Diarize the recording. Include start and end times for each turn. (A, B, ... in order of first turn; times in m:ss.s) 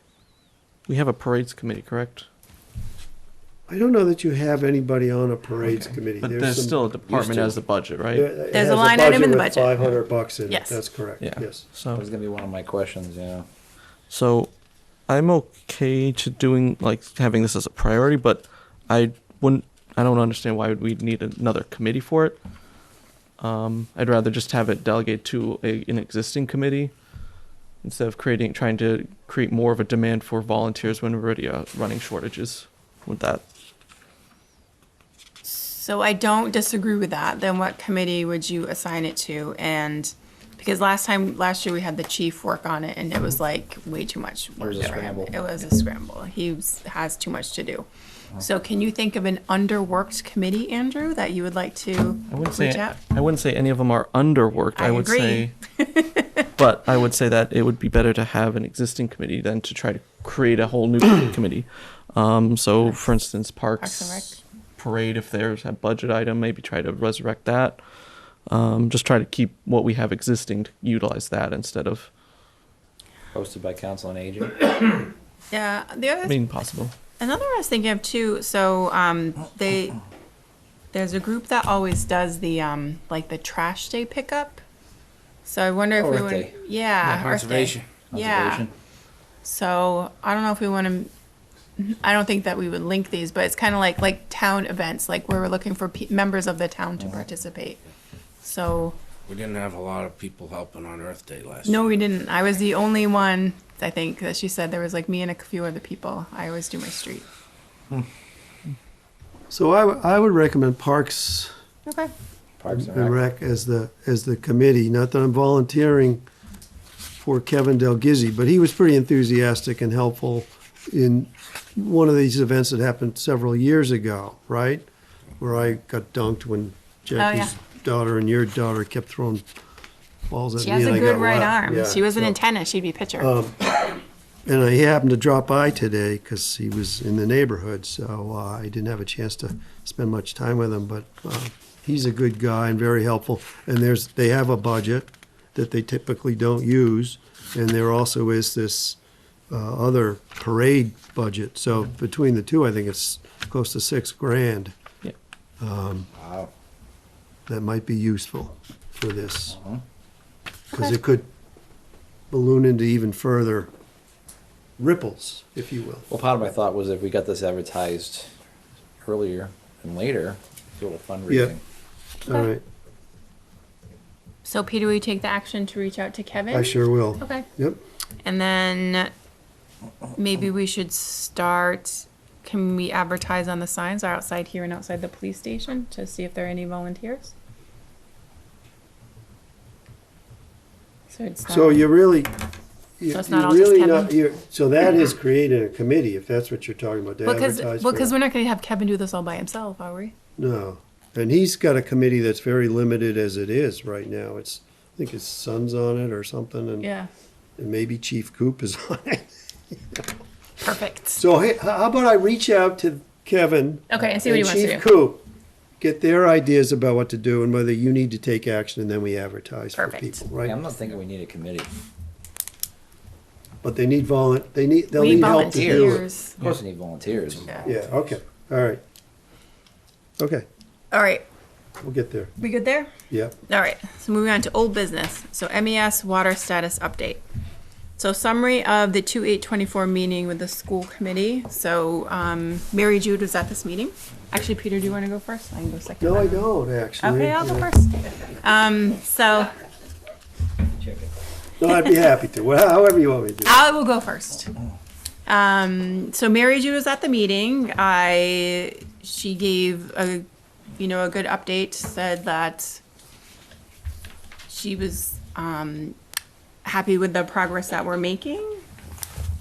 0:00.9-0:02.3 A
0:03.7-0:06.9 B
0:05.7-0:05.9 C
0:06.2-0:08.3 A
0:07.1-0:07.6 C
0:08.1-0:11.6 B
0:08.5-0:09.8 D
0:10.5-0:10.8 D
0:11.2-0:12.0 A
0:12.0-0:13.5 C
0:14.1-0:14.5 A
0:15.1-0:22.4 A
0:23.4-0:26.9 A
0:27.8-0:33.4 A
0:35.4-0:53.0 D
0:44.6-0:45.5 C
0:52.3-0:55.5 A
0:54.8-0:56.4 D
0:56.6-1:07.8 A
1:02.8-1:03.0 D
1:03.8-1:04.4 D
1:08.5-1:12.1 A
1:13.3-1:15.1 C
1:15.5-1:16.6 D
1:16.3-1:16.9 A
1:17.2-1:20.0 D
1:20.9-1:24.6 D
1:25.4-1:28.7 D
1:26.0-1:26.6 C
1:27.0-1:27.8 E
1:28.1-1:28.7 C
1:29.4-1:31.1 D
1:31.8-1:37.8 D
1:37.0-1:37.3 C
1:38.4-1:39.0 D
1:39.3-1:41.8 E
1:41.7-1:47.3 D
1:49.5-1:51.5 B
1:51.9-1:52.1 D
1:52.6-1:53.2 C
1:52.7-1:56.2 B
1:57.2-2:04.9 B
2:05.4-2:09.4 B
2:07.2-2:07.6 D
2:10.3-2:12.4 B
2:10.6-2:13.3 D
2:13.2-2:13.7 B
2:14.5-2:29.0 B
2:29.5-2:34.7 B
2:35.6-2:36.1 B
2:36.2-2:36.5 C
2:37.5-2:39.6 B
2:39.5-2:39.8 C
2:40.7-2:41.3 B
2:42.3-2:43.7 B
2:44.8-2:46.1 B
2:46.1-2:48.3 C
2:49.0-2:51.6 C
2:51.3-2:51.6 B
2:52.3-2:52.6 B
2:54.4-2:57.5 D
2:56.5-2:57.8 B
2:58.2-2:59.1 D
3:00.2-3:07.3 D
3:11.1-3:11.9 D
3:11.5-3:12.3 B
3:13.0-3:18.1 B
3:13.1-3:14.2 D
3:17.2-3:20.1 D
3:20.4-3:26.9 B
3:26.8-3:27.1 D
3:27.6-3:30.1 B
3:30.6-3:31.2 D
3:31.2-3:35.2 B
3:33.9-3:34.9 D
3:35.8-3:40.6 B
3:39.8-3:40.3 D
3:40.4-3:41.7 C
3:43.6-3:46.1 B
3:44.9-3:46.4 D
3:45.0-3:47.6 C
3:47.4-3:47.7 D
3:47.6-3:48.8 B
3:50.2-3:50.4 B
3:50.9-3:51.2 D
3:51.8-3:52.3 B
3:52.4-3:52.9 D
3:53.1-3:53.4 B
3:53.5-3:57.2 D
3:58.0-4:09.6 D
4:06.0-4:07.7 B
4:11.6-4:13.6 B
4:13.4-4:14.5 D
4:15.3-4:22.8 D
4:24.5-4:26.0 D
4:26.6-4:28.6 D